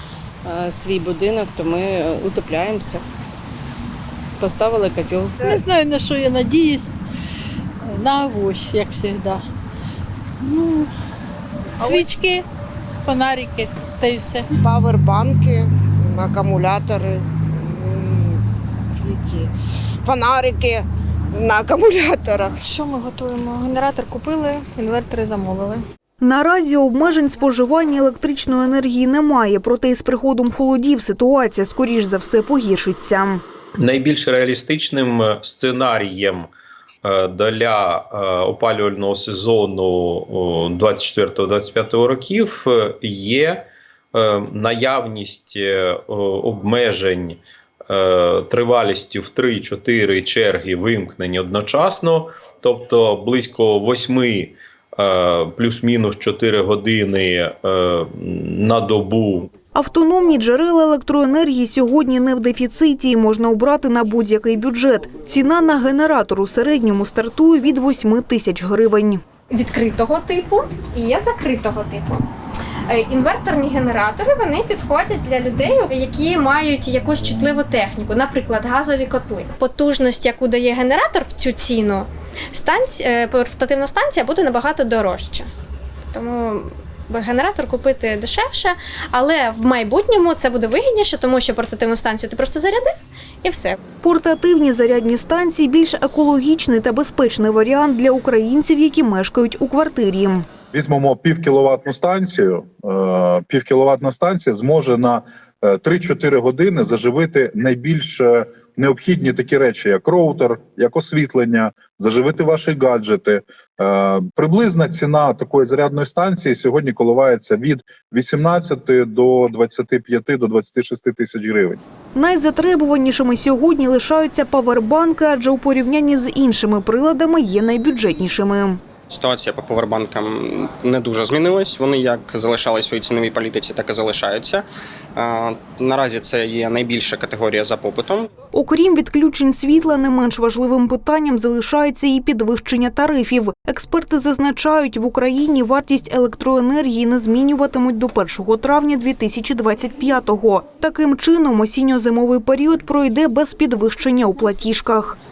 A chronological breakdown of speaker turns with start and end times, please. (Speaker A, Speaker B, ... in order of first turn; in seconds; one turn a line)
Speaker A: 0.5-3.0
Speaker A: 4.4-5.4
Speaker B: 5.4-7.0
Speaker B: 7.8-9.4
Speaker B: 10.4-10.9
Speaker C: 11.8-12.1
Speaker B: 11.8-12.5
Speaker B: 13.1-14.5
Speaker C: 14.6-18.4
Speaker C: 19.0-19.5
Speaker C: 20.0-22.7
Speaker D: 22.6-25.8
Speaker E: 26.2-33.4
Speaker F: 33.8-36.5
Speaker F: 37.0-59.5
Speaker E: 59.8-69.2
Speaker G: 69.5-72.2
Speaker G: 72.9-85.5
Speaker G: 86.1-93.8
Speaker E: 94.0-100.5
Speaker H: 100.7-121.8
Speaker E: 122.2-128.8
Speaker I: 129.1-134.7
Speaker I: 135.2-138.3
Speaker E: 138.5-155.2